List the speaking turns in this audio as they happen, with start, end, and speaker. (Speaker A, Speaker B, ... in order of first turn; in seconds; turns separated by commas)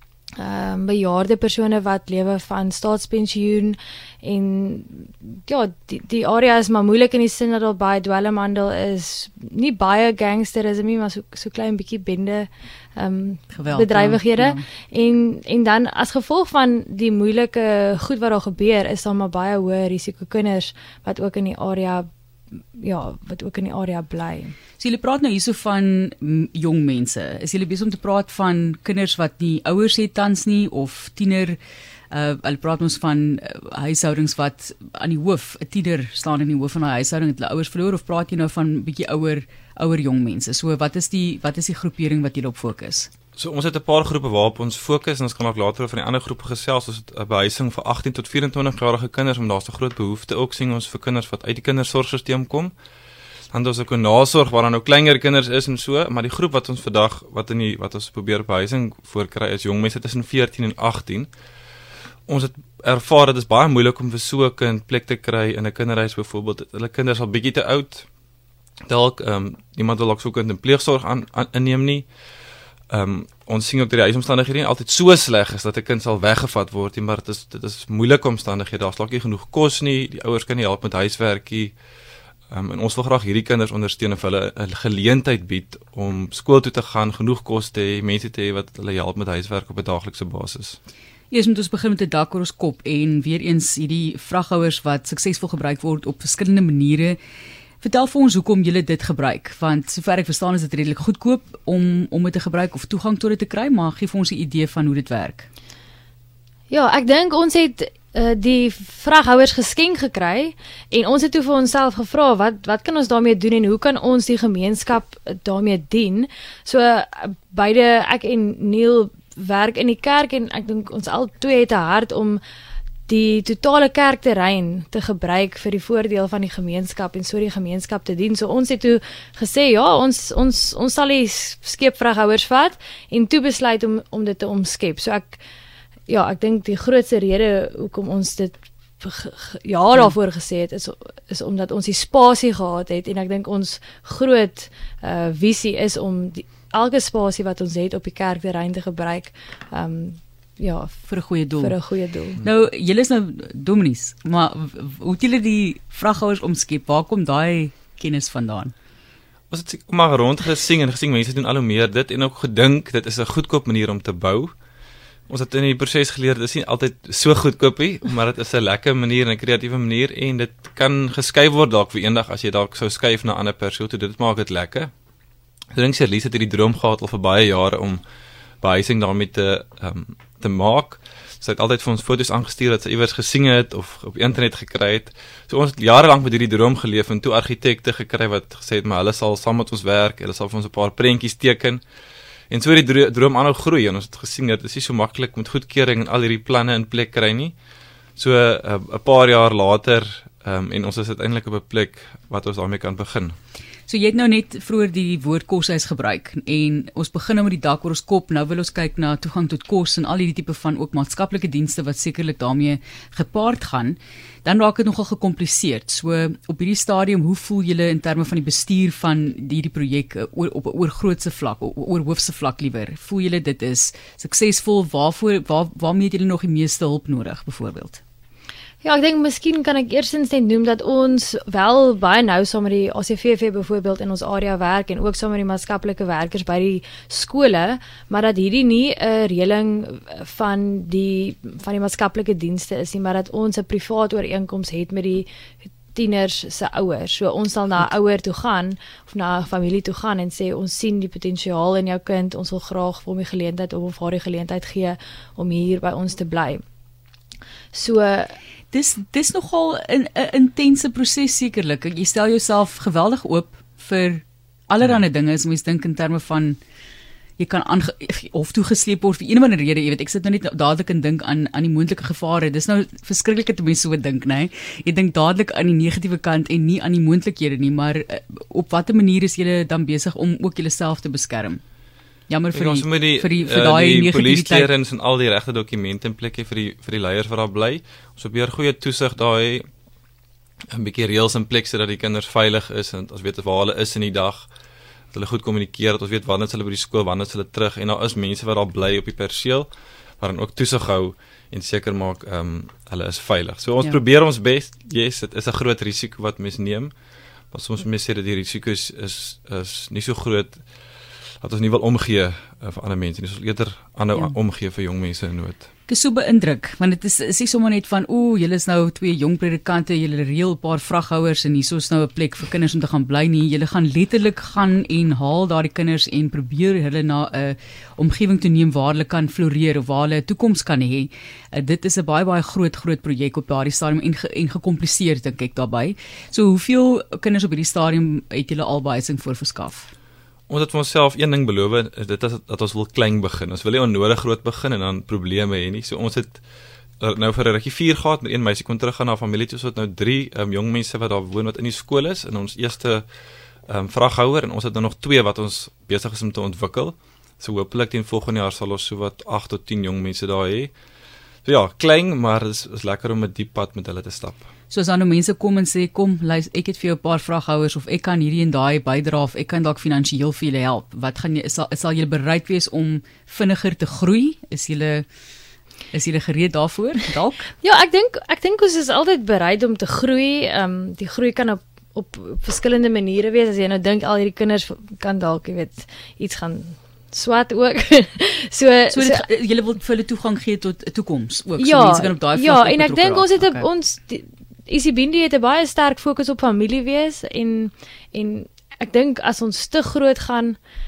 Speaker A: 0.4-22.1, Speaker B: 13.5-14.6, Speaker A: 22.8-24.5, Speaker B: 24.8-31.6, Speaker B: 32.1-43.1, Speaker C: 43.4-52.7, Speaker C: 53.5-61.3, Speaker C: 62.3-68.1, Speaker C: 68.9-72.1, Speaker C: 72.9-81.7, Speaker C: 82.5-90.8, Speaker B: 91.3-97.2, Speaker B: 97.8-105.5, Speaker A: 106.7-122.4, Speaker A: 123.1-135.4, Speaker A: 136.1-151.1, Speaker B: 151.1-151.8, Speaker A: 151.6-152.4, Speaker B: 152.4-158.7, Speaker C: 159.5-164.5, Speaker C: 165.3-174.9, Speaker C: 175.7-178.0, Speaker C: 178.6-191.8, Speaker C: 192.5-197.6, Speaker C: 198.2-203.3, Speaker B: 203.9-228.0, Speaker A: 228.8-245.3, Speaker A: 245.9-256.6, Speaker A: 257.7-258.4, Speaker B: 258.7-266.6, Speaker B: 267.4-281.6, Speaker B: 282.3-284.7, Speaker C: 282.5-289.7, Speaker C: 290.7-294.5, Speaker C: 295.1-306.9, Speaker C: 307.5-310.6, Speaker C: 311.4-315.7, Speaker B: 315.9-339.9, Speaker C: 340.5-346.4, Speaker C: 347.0-353.1, Speaker C: 353.7-360.7, Speaker C: 361.4-364.4, Speaker B: 364.7-375.1, Speaker B: 375.9-377.5, Speaker A: 377.6-389.2, Speaker B: 388.9-393.7, Speaker A: 391.6-400.6